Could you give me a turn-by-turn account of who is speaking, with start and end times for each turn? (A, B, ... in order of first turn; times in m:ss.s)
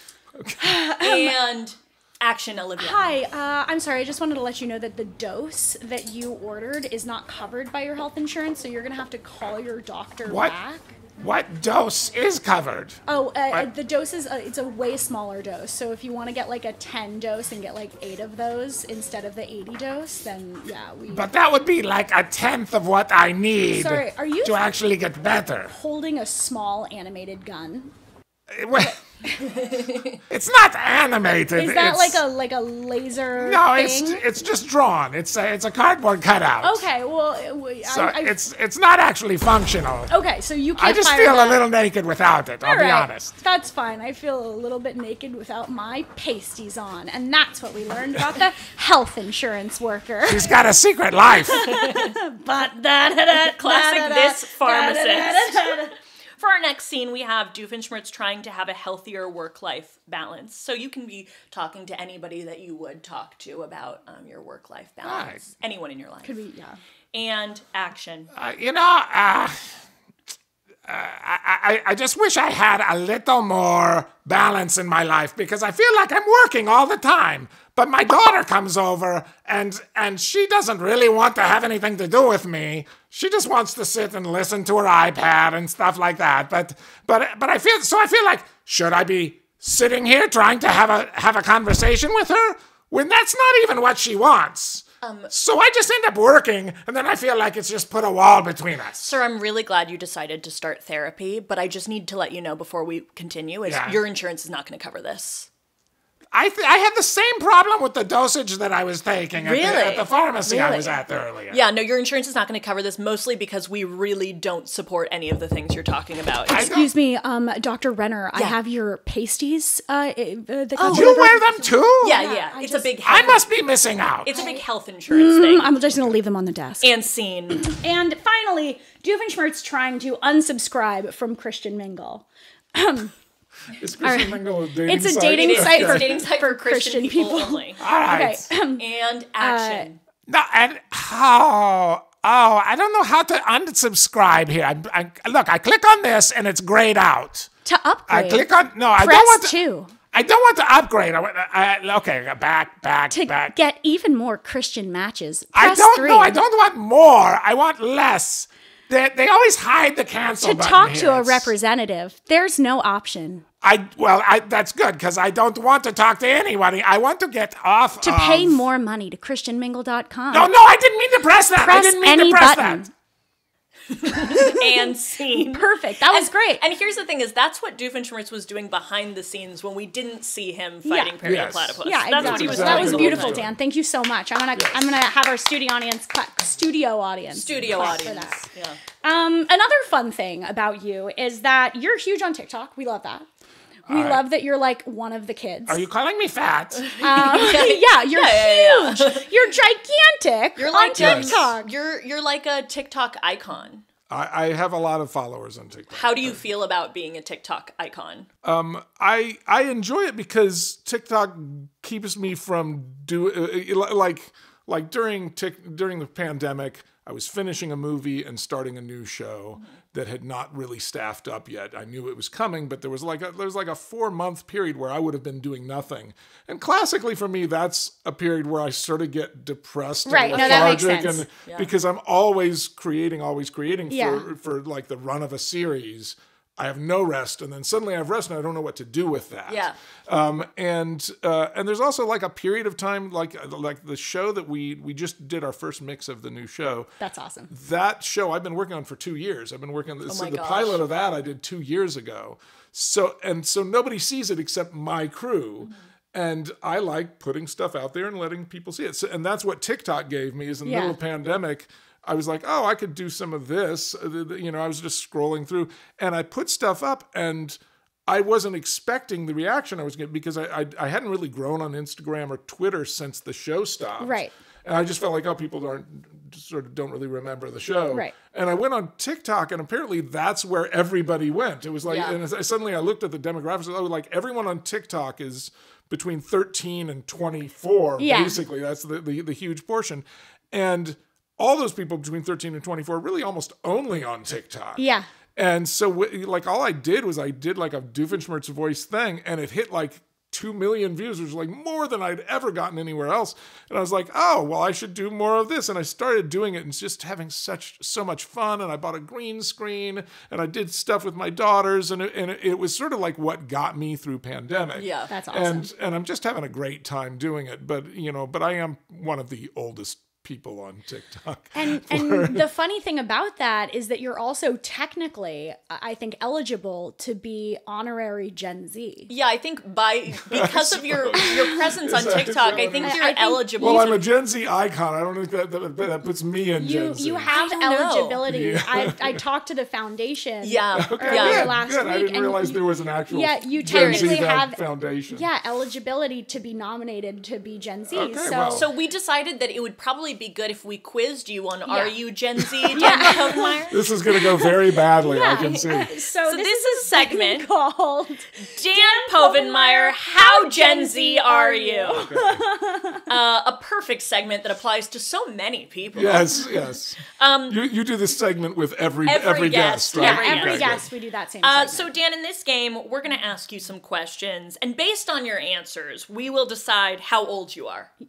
0:00.6-0:01.4 A
0:01.0-0:03.2 B
0:02.8-0:11.0 A
0:10.3-0:10.5 C
0:11.2-0:13.0 C
0:13.1-0:21.3 A
0:21.1-0:25.7 C
0:23.7-0:24.6 A
0:25.7-0:27.9 A
0:28.5-0:29.0 C
0:29.2-0:29.6 A
0:29.5-0:30.2 B
0:30.3-0:32.2 C
0:31.5-0:34.2 A
0:33.4-0:36.8 C
0:36.6-0:38.4 A
0:37.9-0:40.1 C
0:40.1-0:41.6 A
0:40.8-0:43.3 C
0:42.6-0:50.6 A
0:50.2-0:51.7 C
0:51.4-0:55.9 A
0:51.6-0:52.2 B
0:53.3-1:06.4 B
1:05.0-1:05.4 C
1:06.2-1:06.8 A
1:07.1-1:08.3 B
1:08.3-1:09.6 C
1:10.8-1:39.2 C
1:35.0-1:35.3 B
1:39.0-1:45.5 B
1:43.6-1:44.0 C
1:46.3-1:51.6 C
1:49.4-1:50.1 B
1:50.4-1:51.0 A
1:51.5-1:56.7 B
1:56.5-1:56.9 C
1:56.5-2:03.3 A
2:00.8-2:01.1 B
2:00.8-2:02.3 C
2:02.0-2:03.5 B
2:03.0-2:04.3 C
2:04.2-2:05.9 B
2:04.3-2:06.9 A
2:06.8-2:07.7 B
2:07.5-2:13.1 A
2:13.7-2:16.2 D
2:14.0-2:18.8 A
2:15.3-2:17.8 B
2:17.8-2:18.5 C
2:18.8-2:19.9 B
2:19.4-2:19.9 A
2:20.3-2:27.5 C
2:27.6-2:28.4 A
2:28.1-2:29.6 C
2:29.0-2:29.9 A
2:30.1-2:33.5 C
2:33.1-2:36.4 A
2:35.5-2:41.5 C
2:40.4-2:43.4 A
2:43.6-2:48.6 C
2:48.0-2:50.5 A
2:50.3-2:52.8 C
2:51.6-2:52.9 A
2:53.9-3:03.5 B
2:54.1-2:54.9 A
2:55.4-2:56.6 A
3:00.8-3:01.1 A
3:01.2-3:03.5 D
3:01.8-3:08.5 A
3:04.6-3:05.0 D
3:07.3-3:08.8 B
3:09.0-3:13.3 A
3:13.9-3:15.8 A
3:13.9-3:14.2 D
3:15.7-3:17.0 C
3:16.9-3:19.3 B
3:17.0-3:21.7 A
3:20.6-3:23.8 B
3:21.0-3:21.4 D
3:24.1-3:26.4 D
3:25.9-3:28.3 B
3:28.4-4:06.9 D
3:50.0-3:51.3 A
3:50.3-3:50.8 B
3:53.9-3:54.2 A
3:59.5-3:59.8 B
4:07.0-4:07.5 A
4:07.5-4:54.8 D
4:10.0-4:10.8 B
4:20.6-4:21.0 A
4:34.0-4:34.3 A
4:41.9-4:42.2 B
4:48.0-4:48.4 A
4:54.8-4:55.1 A
4:55.4-5:22.4 D
5:14.8-5:15.1 B
5:15.1-5:15.7 A
5:21.5-5:29.1 A
5:29.1-5:34.0 B
5:30.3-5:33.1 D
5:32.4-5:34.0 A
5:33.6-5:37.3 D
5:36.6-5:48.7 A
5:37.3-5:38.2 B
5:38.2-5:39.2 D
5:40.4-5:41.5 B
5:40.7-5:45.3 D
5:43.6-5:44.3 B
5:47.9-5:48.7 D
5:48.5-5:53.8 B
5:51.7-5:52.0 A
5:52.6-5:55.9 D
5:52.7-6:03.0 A
5:55.3-5:57.5 B
5:58.4-6:02.1 B
6:01.9-6:02.4 D
6:03.1-6:06.5 B
6:05.9-6:10.9 D
6:07.1-6:07.6 B
6:09.0-6:10.8 B
6:09.9-6:11.9 A
6:11.4-6:17.9 B